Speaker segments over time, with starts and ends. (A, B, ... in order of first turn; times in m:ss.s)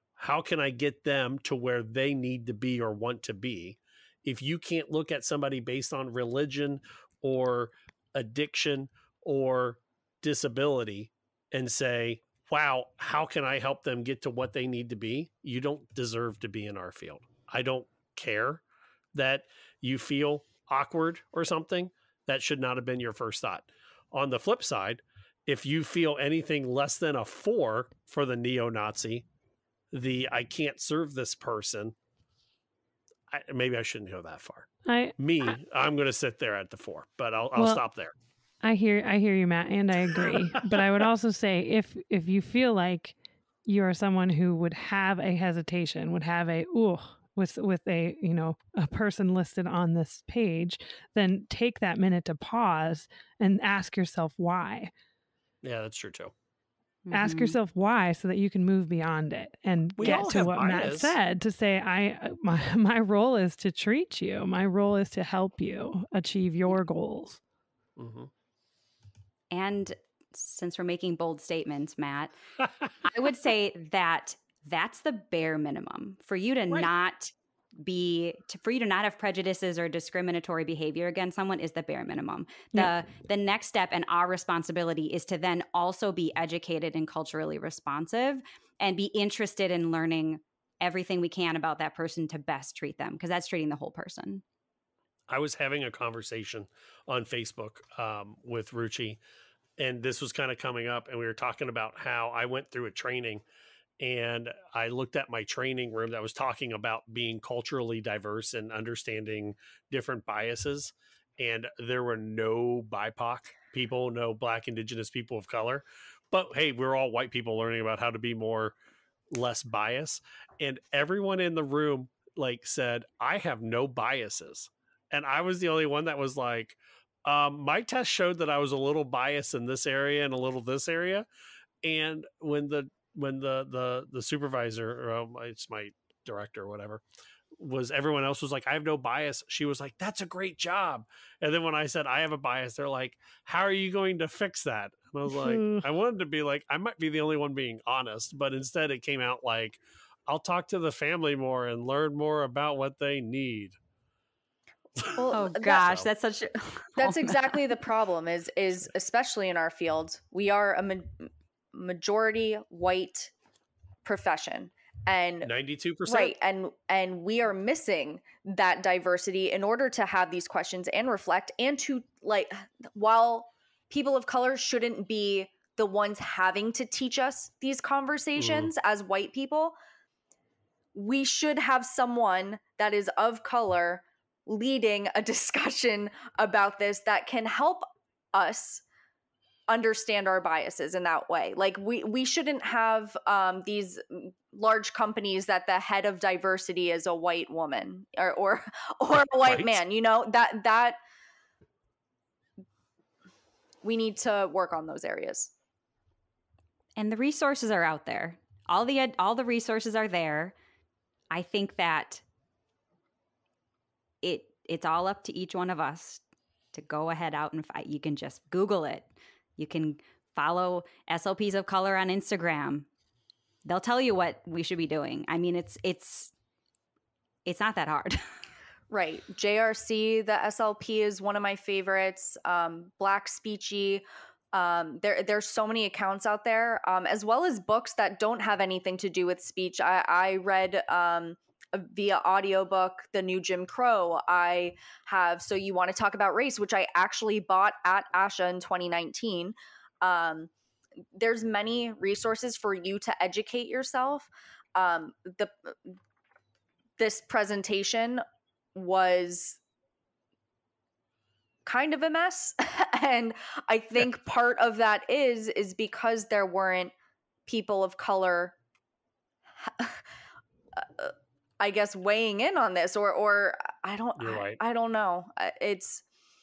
0:00.2-0:18.6 A
0:19.1-0:29.2 A
0:29.9-0:31.9 A
0:33.3-0:38.1 A
0:34.9-0:35.2 B
0:37.5-0:37.8 B
0:38.6-0:54.9 B
0:40.1-0:40.4 A
0:55.6-0:56.3 A
0:57.1-0:57.6 C
0:57.1-1:07.4 B
1:00.0-1:01.2 A
1:08.0-1:08.3 A
1:09.5-1:12.3 C
1:13.0-1:34.4 C
1:35.3-1:39.2 A
1:39.8-1:43.4 A
1:44.0-1:58.7 A
1:59.3-2:11.3 A
2:11.8-2:17.0 A
2:17.6-2:33.8 A
2:25.3-2:25.8 B
2:35.1-2:35.9 D
2:35.3-2:37.6 C
2:37.0-2:43.3 D
2:44.0-2:45.5 D
2:45.4-2:46.3 A
2:46.0-2:59.8 D
2:58.4-2:58.7 A
3:00.9-3:08.8 D
3:09.7-3:21.0 D
3:19.4-3:19.8 A
3:23.8-3:25.5 D
3:27.0-3:30.5 C
3:31.3-3:32.2 C
3:34.2-3:36.2 C
3:36.7-3:42.9 C
3:43.6-3:46.3 C
3:47.4-3:48.3 C
3:48.9-4:10.5 D
4:11.1-4:15.7 D
4:17.0-4:18.2 D
4:18.7-4:19.6 D
4:21.6-4:26.9 D
4:27.5-4:28.5 D
4:29.6-4:30.0 D
4:30.8-4:36.0 D
4:34.2-4:34.6 A